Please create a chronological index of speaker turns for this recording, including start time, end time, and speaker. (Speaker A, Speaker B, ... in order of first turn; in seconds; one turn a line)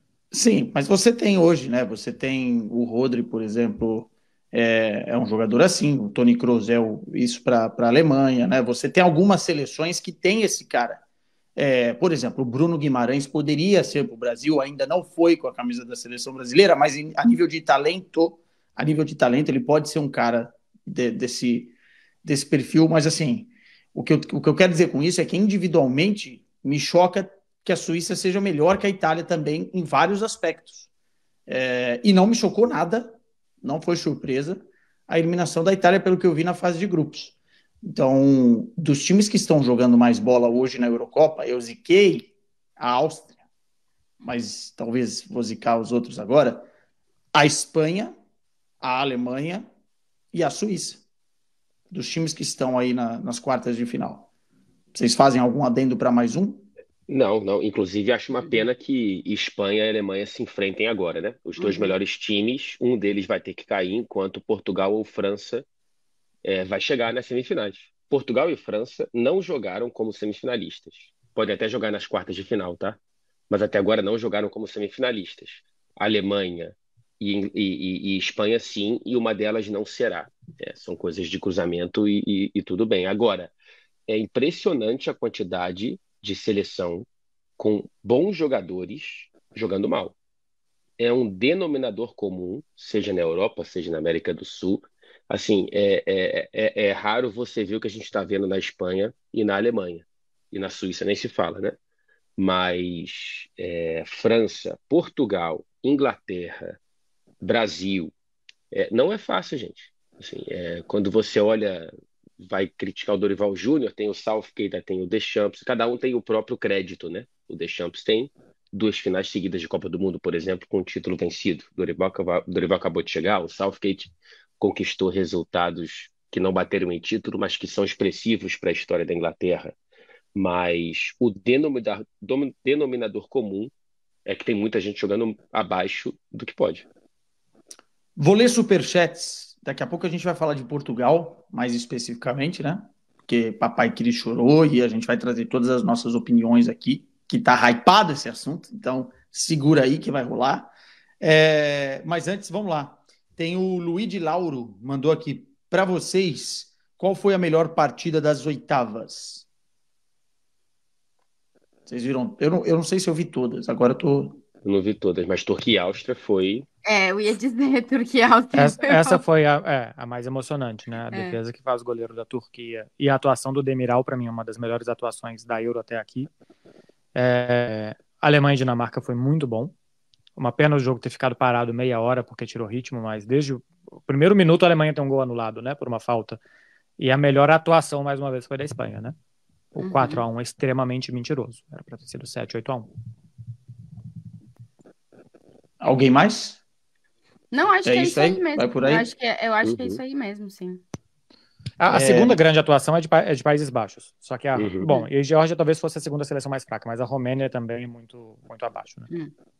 Speaker A: 0.3-11.0
Speaker A: 11.6-21.7
Speaker A: 22.2-30.9
Speaker A: 31.5-43.3
Speaker A: 44.2-46.7
Speaker A: 47.3-48.1
Speaker A: 48.8-49.7
Speaker A: 50.3-51.0
Speaker A: 51.9-54.3
Speaker A: 54.9-56.7
Speaker B: 57.1-65.7
Speaker C: 61.6-61.9
Speaker B: 66.4-83.5
Speaker B: 84.1-90.2
Speaker B: 91.0-101.8
Speaker B: 102.4-106.8
Speaker B: 107.4-108.1
Speaker B: 108.7-129.8
Speaker B: 130.3-133.7
Speaker B: 134.2-136.9
Speaker A: 138.2-159.4
Speaker A: 161.9-164.4
Speaker B: 164.6-166.7
Speaker C: 166.9-169.2
Speaker D: 168.5-176.3
Speaker C: 171.1-171.4
Speaker D: 177.2-179.7
Speaker D: 180.4-186.4
Speaker D: 187.0-189.2
Speaker D: 189.8-192.9
Speaker C: 189.8-190.2
Speaker A: 195.8-196.6
Speaker C: 197.5-200.8
Speaker A: 197.8-199.1
Speaker B: 199.6-200.0
Speaker D: 201.8-209.1
Speaker A: 201.9-202.4
Speaker B: 204.6-204.9